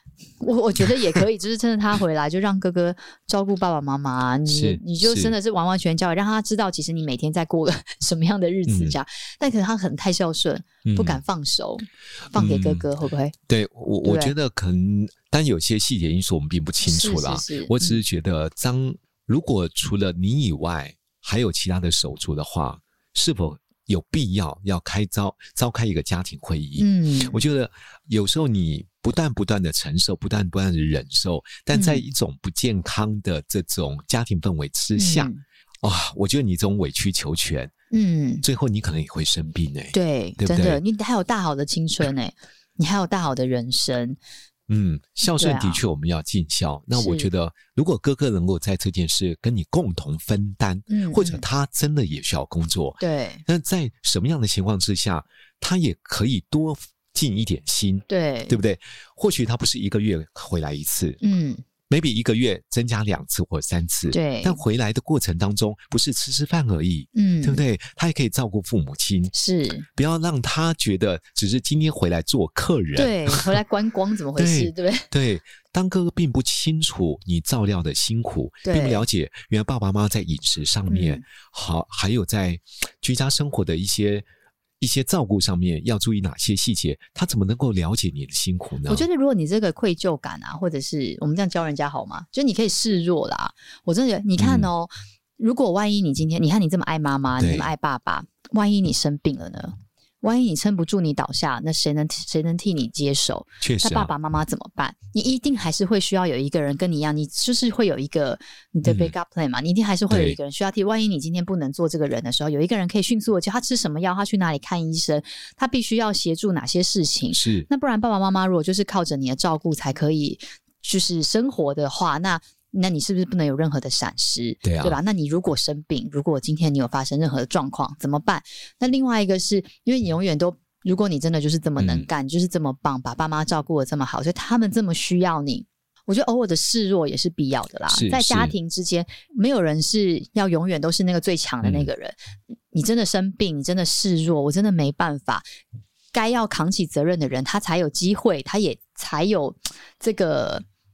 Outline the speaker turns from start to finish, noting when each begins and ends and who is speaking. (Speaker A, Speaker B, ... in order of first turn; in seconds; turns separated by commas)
Speaker A: 0.4-13.3, Speaker B: 4.5-5.3, Speaker B: 8.7-9.0, Speaker B: 10.8-11.2, Speaker B: 12.3-12.9, Speaker B: 13.5-37.7, Speaker A: 14.0-14.3, Speaker A: 16.8-18.0, Speaker A: 26.8-27.4, Speaker A: 31.7-32.0, Speaker A: 35.0-35.4, Speaker A: 37.9-38.5, Speaker B: 38.4-40.8, Speaker A: 39.9-44.2, Speaker B: 44.7-61.2, Speaker A: 45.4-45.8, Speaker A: 47.0-47.3, Speaker A: 50.9-51.4, Speaker A: 53.0-53.4, Speaker A: 58.1-58.6, Speaker A: 61.2-61.6, Speaker B: 61.9-69.3, Speaker A: 64.1-64.6, Speaker A: 67.2-67.6, Speaker A: 69.3-69.9, Speaker B: 70.0-73.5, Speaker A: 73.0-75.1, Speaker B: 74.4-84.3, Speaker A: 78.6-79.0, Speaker A: 80.9-81.2, Speaker B: 84.8-89.1, Speaker A: 88.9-142.2, Speaker B: 94.4-94.7, Speaker B: 97.4-97.7, Speaker B: 103.6-104.1, Speaker B: 108.8-109.1, Speaker B: 110.1-110.4, Speaker B: 117.3-117.7, Speaker B: 124.6-125.0, Speaker B: 131.8-132.1, Speaker B: 137.9-138.5, Speaker B: 141.6-141.9, Speaker A: 142.7-145.4, Speaker A: 146.1-150.7